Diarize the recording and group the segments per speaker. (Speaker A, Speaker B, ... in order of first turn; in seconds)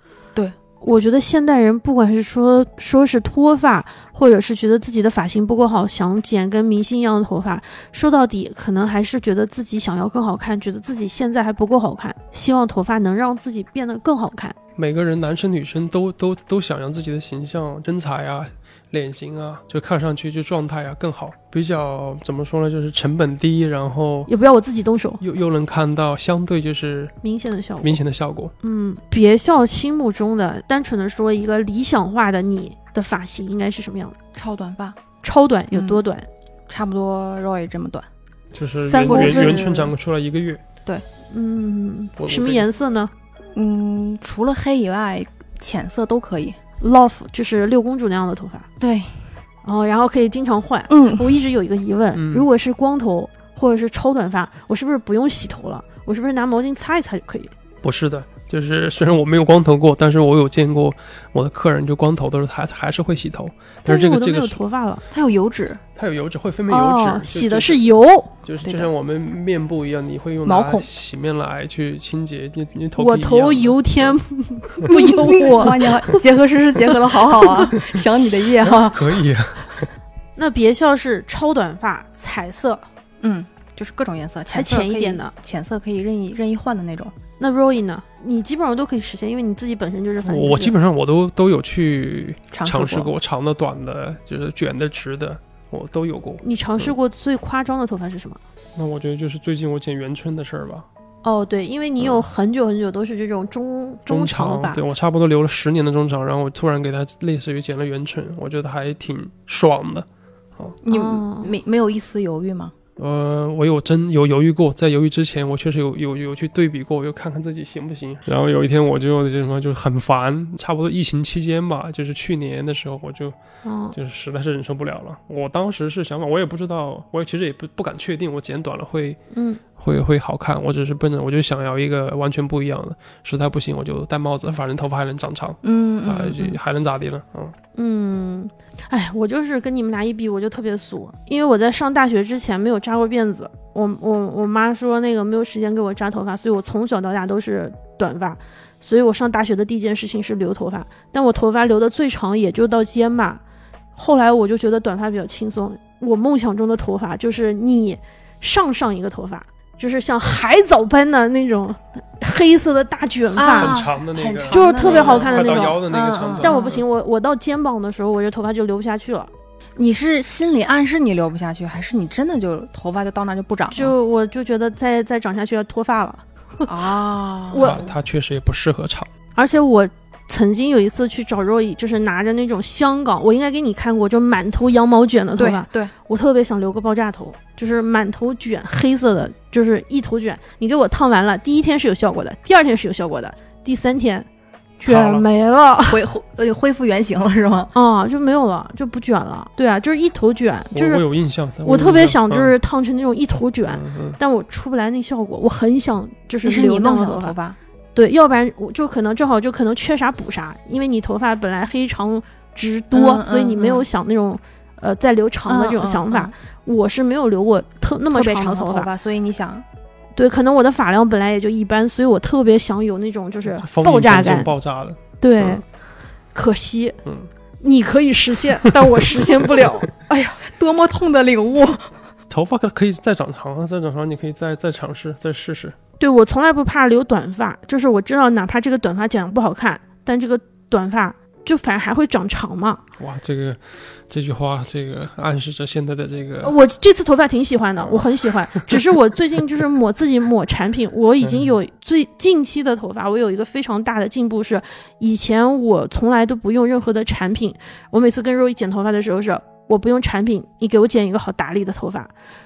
Speaker A: 0.8-14.6, 24.3-25.2, 27.2-28.0, 28.6-34.1, 35.2-36.3, 38.9-39.9, 41.3-43.1, 46.8-48.7, 49.6-57.5, 63.9-65.0, 66.7-68.3, 73.0-76.2, 76.9-77.8, 80.3-82.8, 84.5-85.3, 87.4-90.7, 96.4-98.4, 101.2-104.8, 110.9-111.5, 123.6-123.9, 129.3-129.6, 137.7-153.4, 153.9-163.8, 164.5-165.8, 166.4-169.3, 173.7-176.7, 177.5-177.9, 179.3-194.3, 194.8-196.0, 197.7-201.0, 201.6-207.3, 207.9-218.9, 220.2-224.5, 225.2-225.6, 226.3-227.0, 227.6-229.9, 236.0-242.8, 246.4-262.1
Speaker B: 14.8-24.3, 25.2-27.1, 27.8-28.5, 38.5-40.6, 42.2-42.7, 52.1-52.5, 57.8-64.6, 66.0-67.8, 68.4-74.2, 78.7-79.9, 90.2-96.9, 98.8-100.9, 102.0-102.2, 104.1-110.8, 113.0-123.3, 123.9-129.2, 129.7-137.5, 163.6-166.8, 177.6-179.1, 194.9-195.2, 200.7-202.5, 203.7-204.2, 223.5-225.6, 227.0-227.3, 232.3-235.8, 243.0-246.5, 247.8-248.8, 251.2-251.5
Speaker C: 34.3-35.0, 35.7-36.0, 36.7-38.1, 39.1-39.7, 43.5-46.6, 48.8-49.2, 50.9-51.3, 65.1-65.8, 68.6-68.9, 70.4-70.9, 74.9-79.2, 83.2-87.1, 92.5-93.1, 110.8-112.7, 135.6-136.6, 163.3-166.8, 169.8-173.9, 176.7-177.8, 185.4-185.9, 195.9-197.7, 206.4-207.6, 212.9-213.8, 215.4-216.3, 218.1-219.7, 230.1-231.9